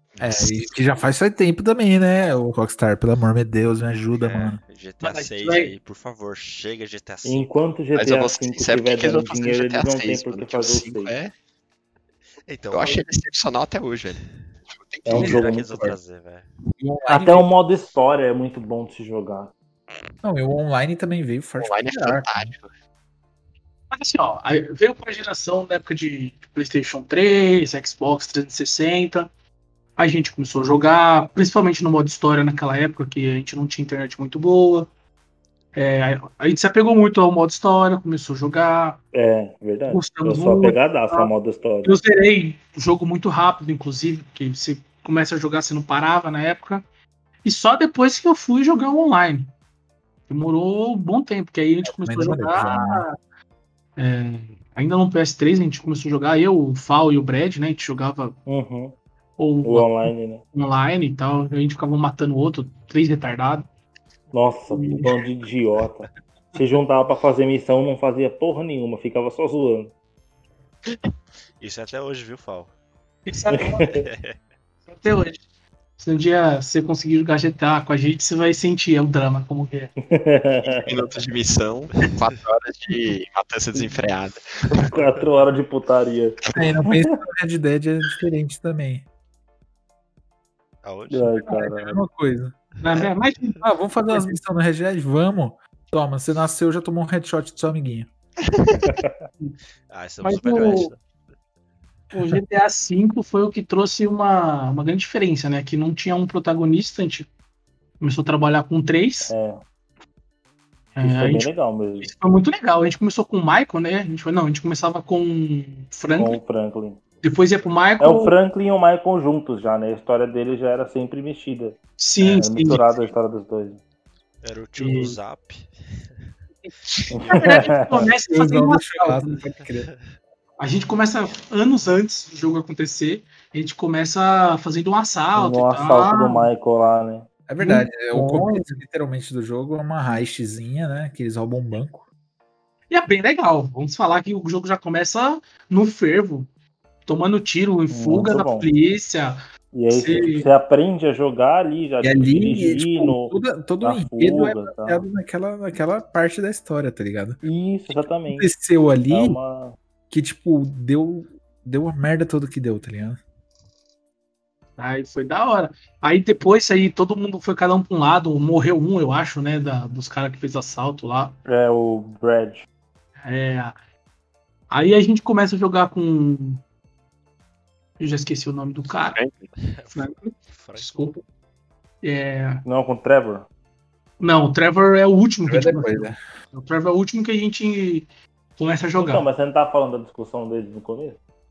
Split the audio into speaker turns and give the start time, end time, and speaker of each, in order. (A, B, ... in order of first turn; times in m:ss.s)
0:00.2-0:00.7 A
0:00.2-0:04.6 B
0:04.2-0:07.5 C
0:05.0-0:05.7 D
0:07.2-0:11.1 E
0:08.0-0:11.3 A
0:12.5-0:13.0 C
0:12.7-0:14.2 A
0:14.2-0:14.4 C
0:14.7-0:15.4 A
0:15.0-0:15.7 E
0:15.1-0:16.5 C
0:16.8-0:17.5 B
0:17.1-0:19.5 E
0:20.2-0:22.5 B
0:21.6-0:22.7 A
0:23.9-0:29.3 D
0:30.0-0:34.9 D
0:35.8-0:39.0 D
0:39.1-0:42.0 E
0:39.9-0:41.3 D
0:41.8-0:46.8 D
0:47.4-0:49.5 D
0:50.3-0:53.2 D
0:51.8-0:53.0 B
0:54.0-0:58.4 D
0:58.5-0:59.0 E
0:59.4-1:03.7 D
0:59.6-1:00.4 E
1:04.3-1:09.9 E
1:04.7-1:05.2 D
1:11.6-1:12.7 C
1:13.3-1:13.9 D
1:13.5-1:14.0 E
1:13.9-1:14.4 C
1:14.9-1:15.4 D
1:16.0-1:19.9 D
1:20.1-1:21.1 E
1:20.6-1:24.9 A
1:24.8-1:27.1 E
1:26.5-1:29.1 B
1:30.8-1:31.4 C
1:31.1-1:32.0 E
1:31.5-1:32.6 B
1:32.8-1:34.4 D
1:33.6-1:38.1 B
1:38.5-1:38.9 A
1:38.8-1:39.2 E
1:39.9-1:41.0 C
1:40.2-1:40.9 D
1:42.1-1:47.3 D
1:48.0-1:49.3 D
1:49.3-1:49.6 E
1:51.0-1:56.4 D
1:51.0-1:52.1 E
1:56.2-1:57.0 E
1:57.2-1:58.3 D
1:58.0-2:03.8 E
2:02.0-2:02.8 D
2:04.4-2:06.3 C
2:04.8-2:05.2 D
2:07.1-2:07.5 C
2:07.2-2:08.1 E
2:07.3-2:09.4 D
2:08.0-2:09.9 B
2:09.7-2:10.0 C
2:10.6-2:16.5 D
2:15.4-2:17.3 E
2:17.5-2:22.1 B
2:17.6-2:18.8 D
2:22.9-2:26.5 D
2:27.1-2:30.5 D
2:27.9-2:28.7 E
2:29.7-2:35.0 E
2:32.0-2:37.4 B
2:37.4-2:38.5 E
2:38.2-2:39.4 B
2:39.1-2:39.8 E
2:40.1-2:43.2 B
2:44.8-2:51.4 D
2:51.5-2:52.6 E
2:53.2-2:53.7 D
2:54.7-2:56.6 D
2:58.0-2:59.2 D
2:59.1-2:59.5 A
2:59.6-3:01.0 C
3:00.0-3:01.2 D
3:02.0-3:02.6 D
3:02.6-3:03.5 E
3:04.2-3:08.1 D
3:05.5-3:06.2 B
3:08.6-3:09.3 D
3:09.0-3:11.2 E